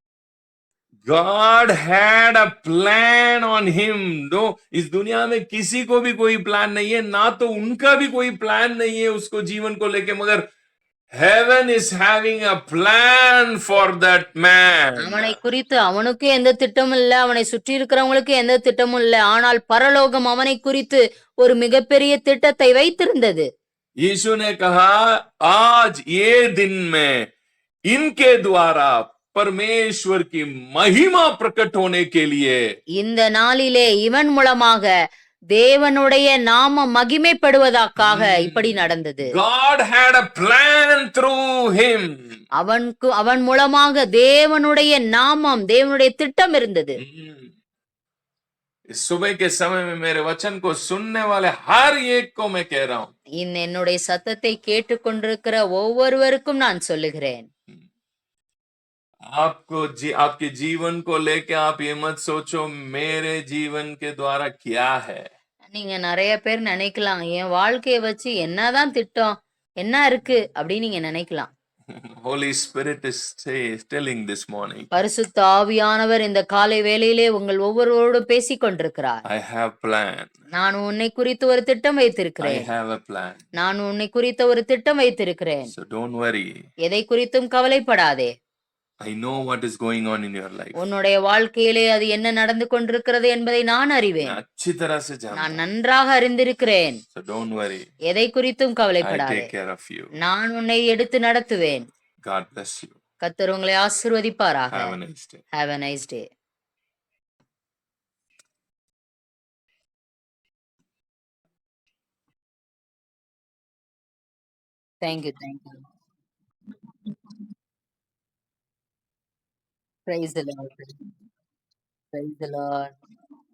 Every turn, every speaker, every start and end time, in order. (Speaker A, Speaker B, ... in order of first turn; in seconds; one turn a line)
Speaker A: 1.1-10.5
Speaker A: 11.2-15.4
Speaker B: 15.0-23.5
Speaker A: 24.0-27.3
Speaker A: 27.9-32.6
Speaker B: 33.0-34.9
Speaker B: 35.5-39.3
Speaker A: 38.0-42.4
Speaker B: 42.6-47.0
Speaker A: 47.0-47.5
Speaker A: 48.9-53.1
Speaker B: 53.4-57.5
Speaker A: 59.3-65.3
Speaker B: 65.7-71.5
Speaker A: 71.9-74.9
Speaker B: 74.9-79.2
Speaker A: 79.3-80.3
Speaker B: 80.5-82.7
Speaker A: 82.4-83.4
Speaker B: 83.6-85.7
Speaker A: 85.7-86.5
Speaker B: 86.8-88.3
Speaker A: 89.0-90.8
Speaker B: 90.8-94.4
Speaker A: 94.2-95.6
Speaker B: 95.4-97.0
Speaker A: 97.1-97.9
Speaker B: 98.1-99.5
Speaker A: 99.0-100.1
Speaker B: 100.2-101.9
Speaker A: 102.3-103.0
Speaker B: 103.2-105.0
Speaker A: 104.7-105.4
Speaker B: 105.5-106.3
Speaker B: 115.0-115.8
Speaker B: 117.1-117.4
Speaker B: 120.1-121.0
Speaker B: 122.1-122.9